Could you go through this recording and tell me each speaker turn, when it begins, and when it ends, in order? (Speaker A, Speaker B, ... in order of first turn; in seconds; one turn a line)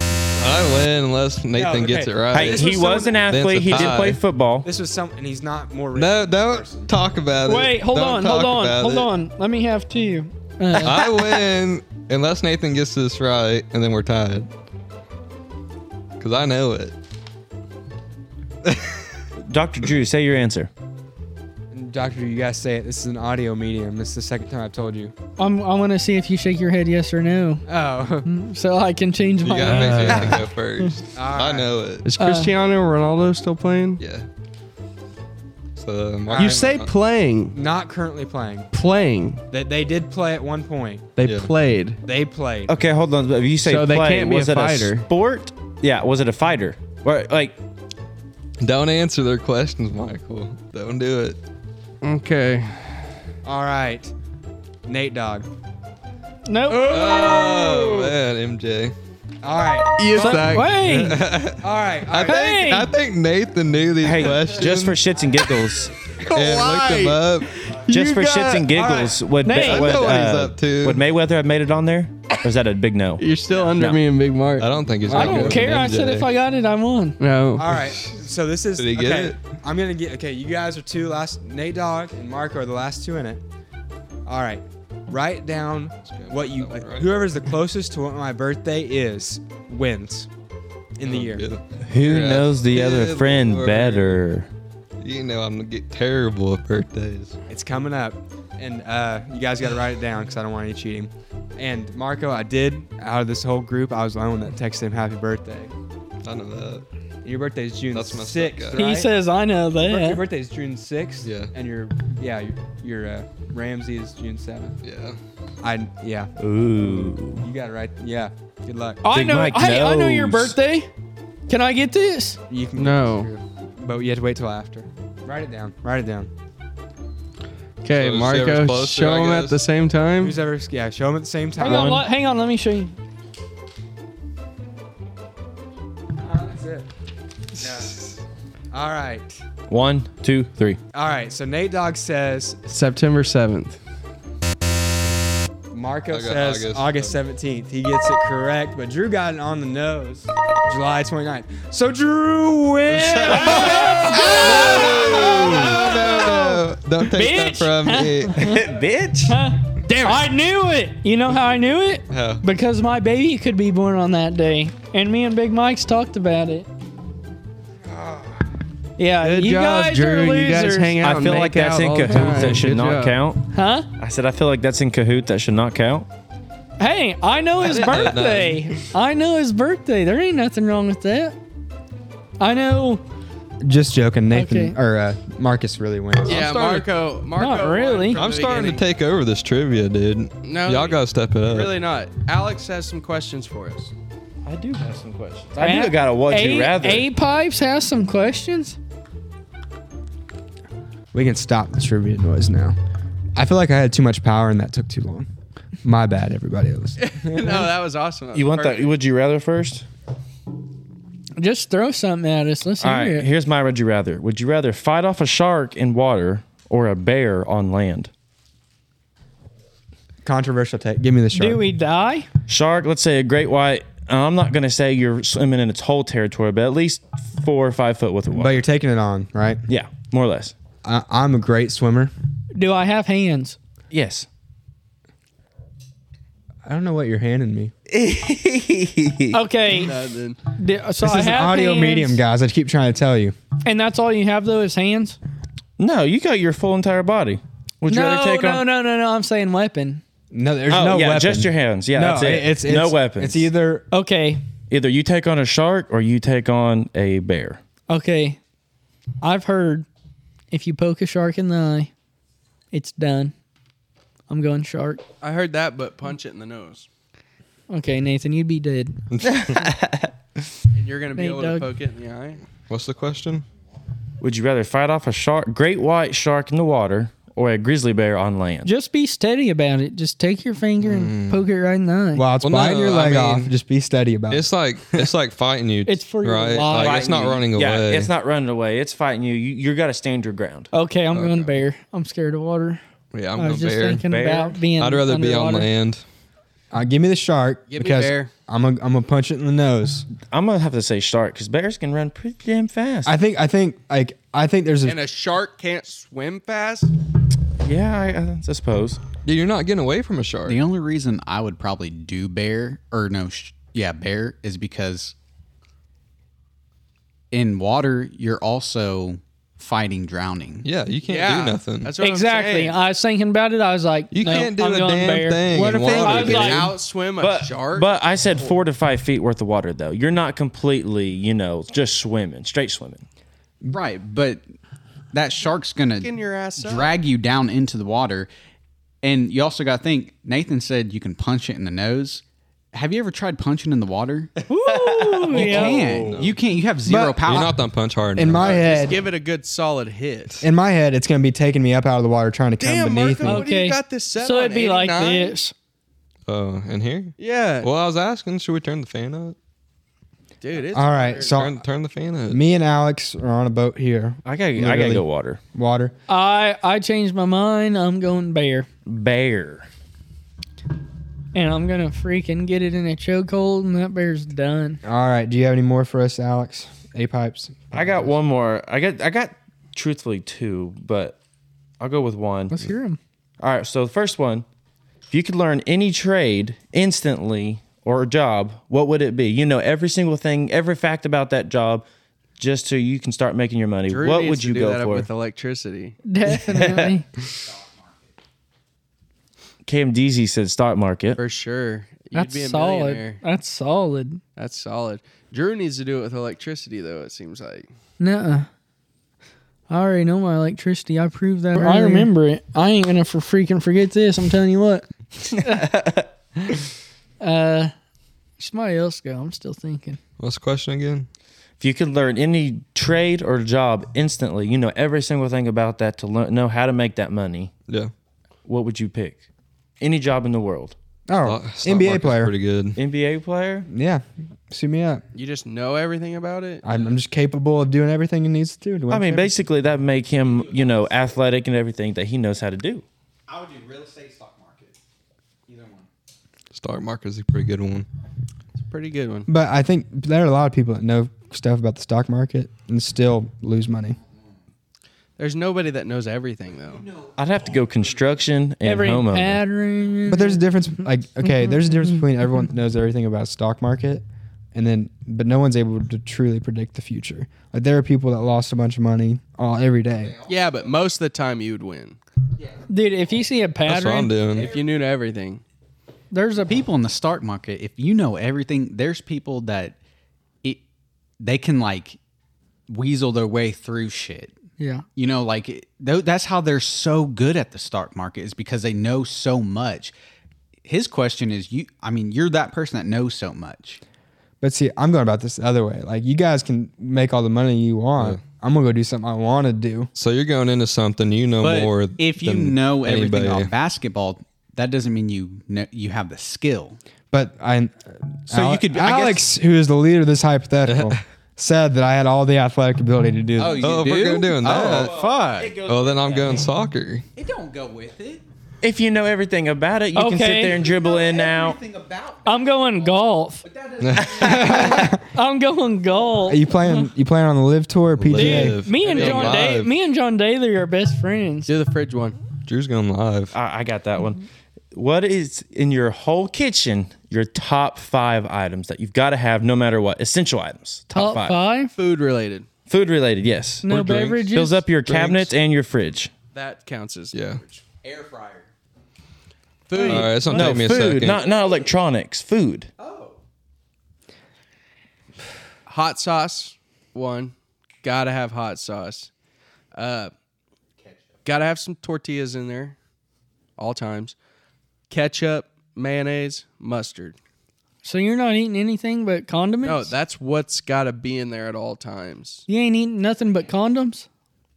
Speaker A: 0.4-2.8
Speaker B: 1.5-4.0
Speaker C: 2.3-4.7
Speaker A: 3.3-4.2
Speaker B: 4.6-6.9
Speaker A: 5.9-9.1
Speaker D: 7.4-11.1
Speaker A: 10.8-14.5
Speaker A: 16.2-16.9
Speaker A: 18.6-19.0
Speaker C: 19.4-20.7
Speaker B: 21.7-25.1
Speaker D: 25.4-27.6
Speaker B: 27.7-28.3
Speaker D: 28.2-30.9
Speaker A: 29.4-32.1
Speaker E: 29.6-30.4
Speaker B: 31.1-31.7
Speaker E: 32.0-34.0
Speaker D: 32.2-32.5
Speaker A: 34.0-34.2
Speaker A: 35.7-36.9
Speaker B: 36.3-36.8
Speaker E: 36.3-37.5
Speaker B: 37.5-38.7
Speaker E: 38.7-39.4
Speaker B: 39.5-41.1
Speaker E: 41.2-42.0
Speaker A: 41.2-41.5
Speaker B: 42.0-42.8
Speaker C: 42.7-47.6
Speaker E: 43.6-45.1
Speaker A: 48.6-51.4
Speaker E: 52.0-53.0
Speaker B: 53.4-54.1
Speaker B: 54.9-55.5
Speaker D: 56.5-57.7
Speaker B: 56.7-58.1
Speaker A: 56.8-58.9
Speaker B: 59.4-60.6
Speaker E: 60.0-60.7
Speaker D: 60.2-61.2
Speaker A: 60.5-65.0
Speaker B: 61.6-62.4
Speaker D: 62.2-62.9
Speaker C: 64.0-65.9
Speaker E: 66.2-68.7
Speaker A: 66.3-67.5
Speaker C: 67.9-74.0
Speaker B: 68.7-69.2
Speaker D: 69.4-70.0
Speaker A: 69.5-71.0
Speaker E: 73.2-75.6
Speaker A: 74.6-76.3
Speaker D: 75.1-77.2
Speaker E: 77.2-77.7
Speaker B: 77.5-83.4
Speaker A: 77.7-78.1
Speaker A: 78.8-79.4
Speaker B: 84.2-90.3
Speaker A: 86.0-87.2
Speaker B: 91.0-91.5
Speaker A: 91.0-94.2
Speaker C: 91.8-94.5
Speaker A: 95.0-97.3
Speaker B: 97.5-105.7
Speaker A: 106.2-106.8
Speaker B: 107.2-109.1
Speaker A: 107.9-108.9
Speaker D: 108.7-110.2
Speaker B: 109.8-114.8
Speaker A: 111.2-111.5
Speaker A: 114.8-115.2
Speaker B: 115.6-119.0
Speaker C: 116.4-117.5
Speaker D: 119.0-120.9
Speaker C: 119.1-120.5
Speaker D: 121.5-122.4
Speaker B: 122.5-126.3
Speaker E: 122.7-123.3
Speaker E: 127.8-130.4
Speaker A: 127.9-129.6
Speaker B: 130.2-132.0
Speaker D: 131.6-132.9
Speaker C: 131.6-132.0
Speaker B: 136.2-136.9
Speaker B: 137.6-138.0
Speaker B: 138.7-139.4
Speaker C: 139.7-140.8
Speaker B: 140.9-142.7
Speaker E: 142.7-143.8
Speaker B: 145.7-155.2
Speaker A: 146.1-147.2
Speaker A: 152.9-158.5
Speaker D: 153.2-158.6
Speaker C: 158.4-159.4
Speaker D: 159.2-166.7
Speaker E: 159.9-160.3
Speaker A: 162.1-162.4
Speaker B: 167.9-168.3
Speaker D: 169.0-170.9
Speaker E: 169.2-173.2
Speaker C: 171.0-176.1
Speaker D: 173.5-173.9
Speaker D: 176.8-181.4
Speaker A: 177.6-178.8
Speaker D: 182.4-183.0
Speaker B: 183.6-186.4
Speaker D: 184.3-184.8
Speaker E: 186.2-188.8
Speaker A: 186.3-186.8
Speaker D: 187.4-188.2
Speaker A: 188.1-191.7
Speaker E: 190.4-193.9
Speaker C: 194.4-197.1
Speaker D: 195.6-198.8
Speaker B: 201.1-202.8
Speaker B: 203.3-205.3
Speaker B: 205.8-207.7
Speaker E: 207.0-208.9
Speaker C: 208.3-209.8
Speaker D: 211.4-213.3
Speaker C: 212.8-218.1
Speaker B: 220.2-221.6
Speaker D: 221.3-222.3
Speaker C: 222.5-228.6
Speaker B: 228.3-229.6
Speaker C: 229.7-230.5
Speaker B: 230.8-232.1
Speaker D: 232.6-233.6
Speaker C: 233.9-234.2
Speaker B: 236.6-237.7
Speaker C: 237.9-239.4
Speaker D: 239.3-239.9
Speaker E: 239.7-240.4
Speaker D: 240.5-242.2
Speaker B: 241.0-243.3
Speaker D: 243.6-245.2
Speaker C: 245.8-248.6
Speaker D: 247.9-250.0
Speaker B: 250.3-253.8
Speaker C: 250.7-253.5
Speaker D: 253.9-254.4
Speaker C: 254.7-257.6
Speaker D: 257.9-258.4
Speaker D: 259.2-259.9
Speaker D: 260.5-261.9
Speaker D: 262.7-263.3
Speaker D: 264.3-265.0
Speaker E: 265.2-266.9
Speaker D: 267.7-269.0
Speaker A: 269.1-269.7
Speaker C: 269.2-270.1
Speaker E: 270.7-272.4
Speaker D: 271.1-271.7
Speaker A: 272.7-273.4
Speaker C: 274.2-278.7
Speaker D: 278.6-282.2
Speaker A: 280.8-281.4
Speaker B: 282.1-284.5
Speaker A: 282.4-283.5
Speaker A: 284.3-288.1
Speaker D: 285.9-287.4
Speaker C: 286.7-290.7
Speaker D: 290.7-292.8
Speaker A: 291.1-291.5
Speaker A: 293.1-294.0
Speaker D: 293.3-295.7
Speaker C: 294.1-294.6
Speaker A: 294.7-296.0
Speaker B: 296.7-300.1
Speaker E: 297.7-298.3
Speaker C: 300.2-303.1
Speaker B: 303.0-305.0
Speaker E: 304.8-306.9
Speaker C: 307.6-309.0
Speaker A: 309.2-310.6
Speaker F: 310.4-315.1
Speaker F: 317.3-320.7
Speaker A: 320.6-321.9
Speaker E: 321.1-322.8
Speaker D: 322.0-326.7
Speaker A: 324.1-326.7
Speaker F: 325.5-326.5
Speaker E: 325.6-327.9
Speaker C: 327.2-333.0
Speaker F: 333.6-334.4
Speaker F: 335.1-338.3
Speaker E: 336.0-336.9
Speaker F: 339.0-344.3
Speaker D: 344.5-345.8
Speaker C: 344.7-346.3
Speaker F: 345.3-347.5
Speaker B: 346.9-347.5
Speaker A: 347.2-348.8
Speaker B: 348.1-349.0
Speaker E: 348.3-350.4
Speaker B: 350.4-353.4
Speaker E: 352.6-355.4
Speaker D: 353.2-355.5
Speaker A: 356.2-359.4
Speaker E: 357.2-357.7
Speaker E: 360.4-361.4
Speaker B: 360.7-361.6
Speaker A: 361.3-362.4
Speaker B: 362.3-365.9
Speaker C: 364.2-365.4
Speaker D: 366.1-368.7
Speaker C: 368.9-369.7
Speaker D: 371.3-374.8
Speaker B: 374.8-378.0
Speaker C: 377.7-381.2
Speaker C: 381.8-382.7
Speaker D: 382.5-383.0
Speaker C: 383.4-384.4
Speaker C: 385.1-391.8
Speaker C: 392.4-395.1
Speaker E: 393.9-396.0
Speaker D: 396.0-397.1
Speaker C: 396.3-396.9
Speaker F: 397.5-397.9
Speaker C: 399.6-401.2
Speaker E: 401.2-403.2
Speaker D: 402.1-404.2
Speaker E: 404.4-407.7
Speaker D: 408.0-408.5
Speaker D: 409.7-415.8
Speaker C: 411.6-412.1
Speaker C: 415.4-416.1
Speaker D: 417.2-417.7
Speaker D: 418.4-420.0
Speaker A: 420.2-421.1
Speaker C: 421.6-427.5
Speaker C: 428.4-429.2
Speaker C: 429.8-430.7
Speaker B: 431.1-432.3
Speaker A: 431.2-432.8
Speaker C: 432.7-433.7
Speaker B: 433.7-435.0
Speaker E: 435.1-436.6
Speaker B: 436.6-439.3
Speaker C: 438.9-442.8
Speaker F: 443.3-444.7
Speaker F: 445.5-445.9
Speaker A: 446.5-447.9
Speaker E: 448.6-449.3
Speaker B: 449.3-454.0
Speaker E: 455.2-456.9
Speaker C: 457.1-459.4
Speaker D: 458.6-460.4
Speaker B: 460.1-470.2
Speaker E: 470.2-472.0
Speaker D: 472.7-474.1
Speaker A: 473.6-474.5
Speaker E: 474.3-475.4
Speaker D: 476.1-476.6
Speaker F: 476.4-479.8
Speaker F: 481.2-482.0
Speaker F: 482.7-484.3
Speaker D: 484.6-484.8
Speaker F: 484.9-489.9
Speaker F: 490.6-493.8
Speaker B: 494.4-499.9
Speaker A: 498.0-498.2
Speaker A: 499.9-503.5
Speaker F: 501.4-506.8
Speaker B: 507.1-513.8
Speaker C: 508.3-509.2
Speaker A: 510.6-511.0
Speaker F: 513.4-515.6
Speaker A: 513.6-514.9
Speaker C: 514.5-516.4
Speaker A: 515.6-517.0
Speaker F: 516.1-516.4
Speaker F: 517.1-518.2
Speaker C: 518.6-521.6
Speaker D: 519.9-520.6
Speaker F: 520.6-522.6
Speaker D: 522.2-523.4
Speaker F: 523.5-524.6
Speaker A: 523.8-524.2
Speaker B: 524.1-525.0
Speaker D: 524.5-526.8
Speaker B: 526.3-528.6
Speaker A: 528.0-529.7
Speaker D: 528.1-531.5
Speaker E: 528.8-529.4
Speaker E: 531.5-532.2
Speaker A: 532.4-533.3
Speaker C: 533.3-541.4
Speaker D: 540.9-541.7
Speaker E: 541.7-542.5
Speaker C: 542.7-546.1
Speaker D: 543.6-544.6
Speaker A: 544.9-545.3
Speaker E: 546.3-547.6
Speaker A: 547.1-547.4
Speaker F: 547.8-548.5
Speaker E: 549.7-550.6
Speaker D: 549.8-550.5
Speaker A: 549.8-551.2
Speaker C: 550.3-552.7
Speaker F: 552.8-553.2
Speaker E: 555.6-559.1
Speaker E: 559.7-560.1
Speaker E: 561.2-562.8
Speaker E: 563.6-564.1
Speaker E: 564.9-567.2
Speaker D: 567.8-569.9
Speaker E: 569.6-572.4
Speaker D: 572.5-574.1